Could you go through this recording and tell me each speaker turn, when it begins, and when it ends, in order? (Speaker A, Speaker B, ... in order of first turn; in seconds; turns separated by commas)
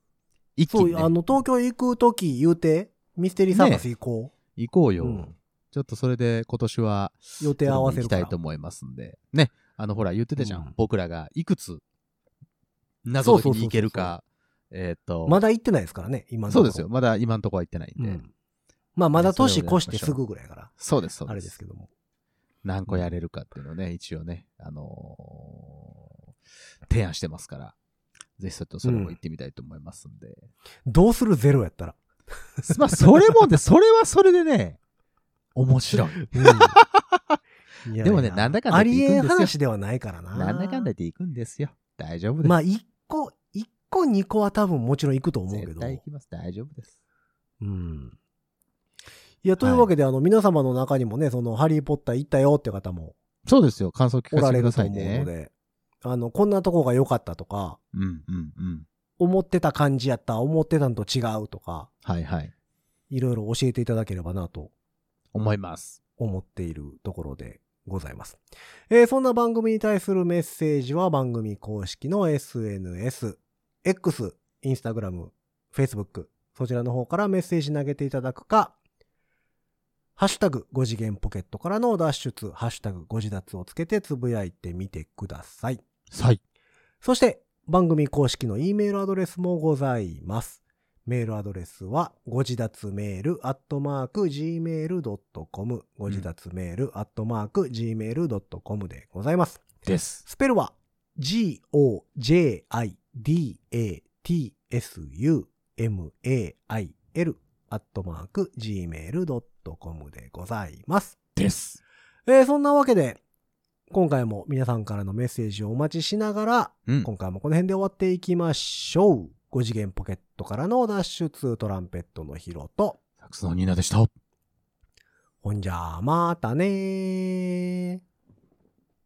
Speaker A: 0.6-1.4, Speaker B: 0.7-4.3, Speaker A: 3.5-3.9, Speaker A: 4.5-11.8, Speaker B: 5.0-5.3, Speaker B: 7.4-8.3, Speaker B: 10.4-10.7, Speaker A: 13.0-15.4, Speaker B: 13.2-14.2, Speaker B: 15.2-16.9, Speaker A: 16.5-18.2, Speaker B: 18.0-18.3, Speaker B: 18.9-20.7, Speaker A: 19.2-20.2, Speaker A: 20.8-21.5, Speaker B: 21.3-21.9, Speaker A: 22.6-26.1, Speaker A: 26.9-27.8, Speaker A: 28.4-30.5, Speaker B: 28.8-29.1, Speaker B: 30.9-32.0, Speaker B: 32.6-33.4, Speaker A: 32.7-34.8, Speaker A: 35.5-37.4, Speaker B: 35.9-36.8, Speaker B: 37.8-40.9, Speaker A: 38.0-39.5, Speaker A: 40.3-42.6, Speaker B: 42.4-46.0, Speaker A: 45.5-46.9, Speaker B: 47.6-48.1, Speaker B: 49.4-53.1, Speaker A: 49.6-49.9, Speaker A: 53.4-55.3, Speaker B: 54.3-55.5, Speaker B: 56.0-57.8, Speaker A: 57.9-58.9, Speaker B: 59.2-61.9, Speaker A: 62.0-62.5, Speaker B: 63.1-64.7, Speaker A: 65.3-66.0, Speaker B: 66.2-78.7, Speaker B: 80.2-85.8, Speaker A: 86.1-86.4, Speaker B: 87.0-111.2, Speaker A: 99.8-100.2, Speaker A: 111.3-111.8, Speaker B: 112.3-113.2, Speaker B: 113.9-123.0, Speaker A: 123.2-124.1, Speaker B: 125.4-128.0